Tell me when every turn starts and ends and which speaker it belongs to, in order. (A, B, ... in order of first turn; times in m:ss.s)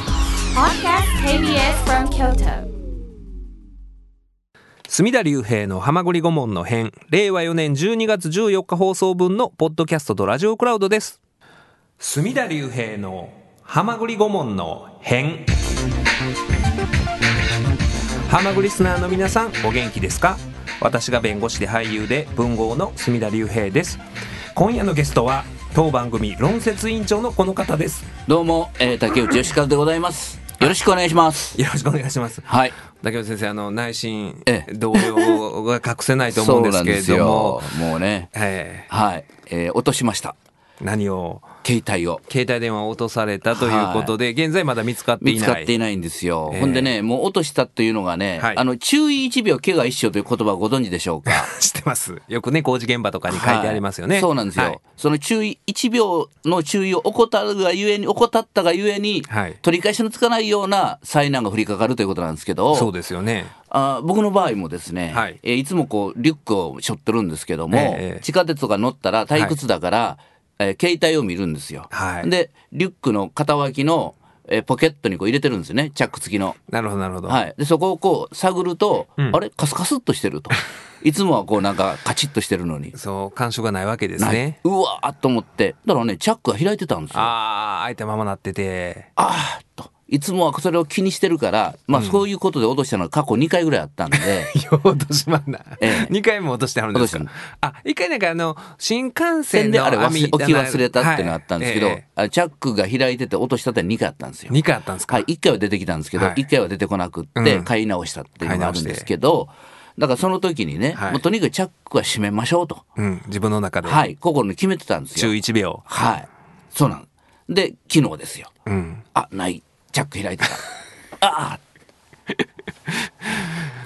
0:00.5-0:02.7 A
0:04.9-0:11.2 B
0:12.0-0:15.6 B
0:18.2-0:24.0 B
0:24.6-0:28.1 B
0:28.3-0:31.6 C
0:31.5-0:37.7 B
0:32.4-0:32.7 C
0:34.4-0:35.4 C
0:36.3-0:38.3 C
0:38.3-0:38.9 B
0:38.9-0:40.3 C
0:40.8-0:41.5 B
0:41.6-0:42.2 C
0:42.3-0:45.7 B
0:43.5-0:44.1 C
0:45.2-0:51.5 C
0:46.5-0:46.9 B
0:48.4-0:48.6 B
0:51.2-0:54.8 B
0:53.3-1:02.9 C
0:59.3-0:59.6 B
1:02.7-1:03.5 B
1:03.7-1:16.6 C
1:05.1-1:05.4 B
1:07.7-1:08.2 B
1:11.9-1:12.3 B
1:16.7-1:17.4 B
1:17.3-1:23.0 C
1:22.9-1:24.6 B
1:24.2-1:27.3 C
1:27.1-1:29.1 B
1:29.2-1:34.5 C
1:31.9-1:32.2 B
1:34.1-1:42.0 B
1:35.8-1:36.1 C
1:36.9-1:37.3 C
1:39.5-1:44.6 C
1:44.5-1:45.2 B
1:45.1-1:52.8 C
1:46.2-1:46.4 B
1:47.4-1:47.7 B
1:48.4-1:49.1 B
1:50.9-1:51.2 B
1:53.0-1:54.0 B
1:53.8-1:55.3 C
1:55.2-1:55.8 B
1:55.9-1:58.5 C
1:58.7-1:59.0 B
1:59.2-2:00.6 C
2:01.2-2:01.6 C
2:03.2-2:03.6 B